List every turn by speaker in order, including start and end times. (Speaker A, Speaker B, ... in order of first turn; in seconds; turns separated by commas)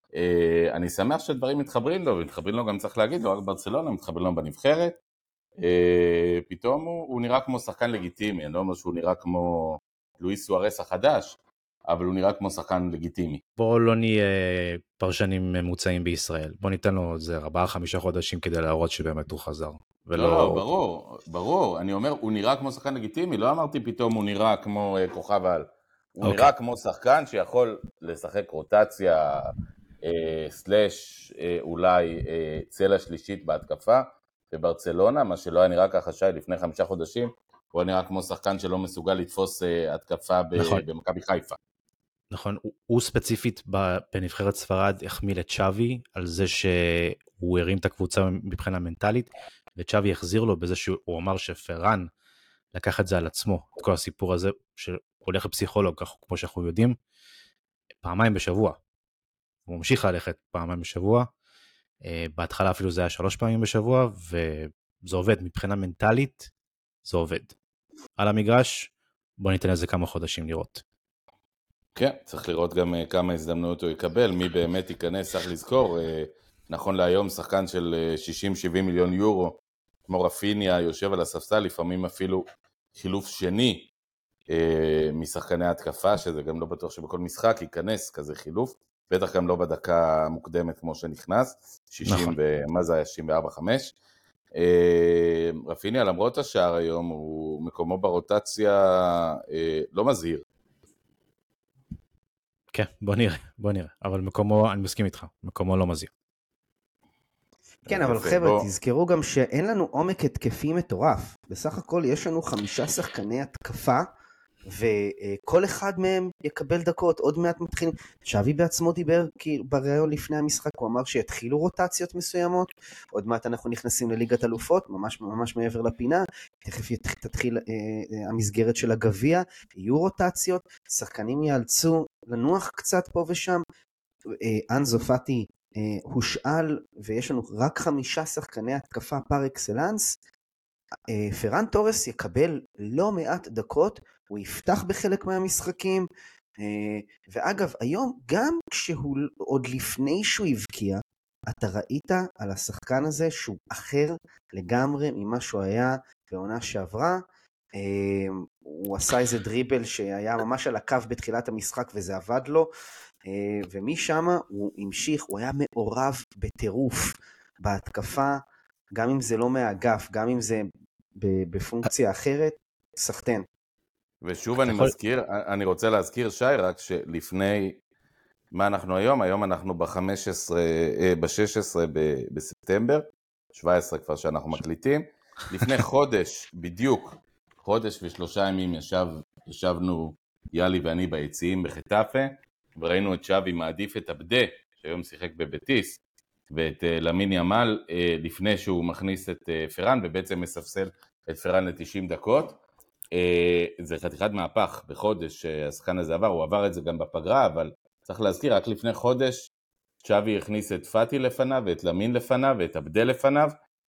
Speaker A: 0.1-5.0, Speaker A: 5.6-11.4, Speaker A: 11.9-13.4, Speaker B: 13.6-20.6, Speaker A: 20.1-29.5, Speaker B: 26.2-26.5, Speaker A: 30.0-41.6, Speaker B: 40.6-40.8, Speaker B: 42.3-52.1, Speaker B: 52.7-57.0, Speaker B: 58.0-58.8, Speaker B: 59.7-61.3, Speaker B: 62.0-66.5, Speaker B: 67.0-67.5, Speaker B: 68.2-70.8, Speaker A: 72.0-83.9, Speaker A: 84.5-93.9, Speaker B: 92.0-92.3, Speaker A: 94.5-100.4, Speaker B: 102.7-106.1, Speaker A: 107.9-108.7, Speaker C: 107.9-114.1, Speaker C: 114.7-133.6, Speaker C: 134.3-140.2, Speaker C: 141.1-146.1, Speaker C: 146.6-157.2, Speaker C: 157.7-162.7, Speaker C: 163.2-168.4, Speaker C: 168.9-173.4, Speaker A: 174.2-177.8, Speaker B: 174.6-174.9, Speaker A: 178.5-196.0, Speaker A: 196.5-202.6, Speaker A: 203.1-209.5, Speaker A: 210.0-213.5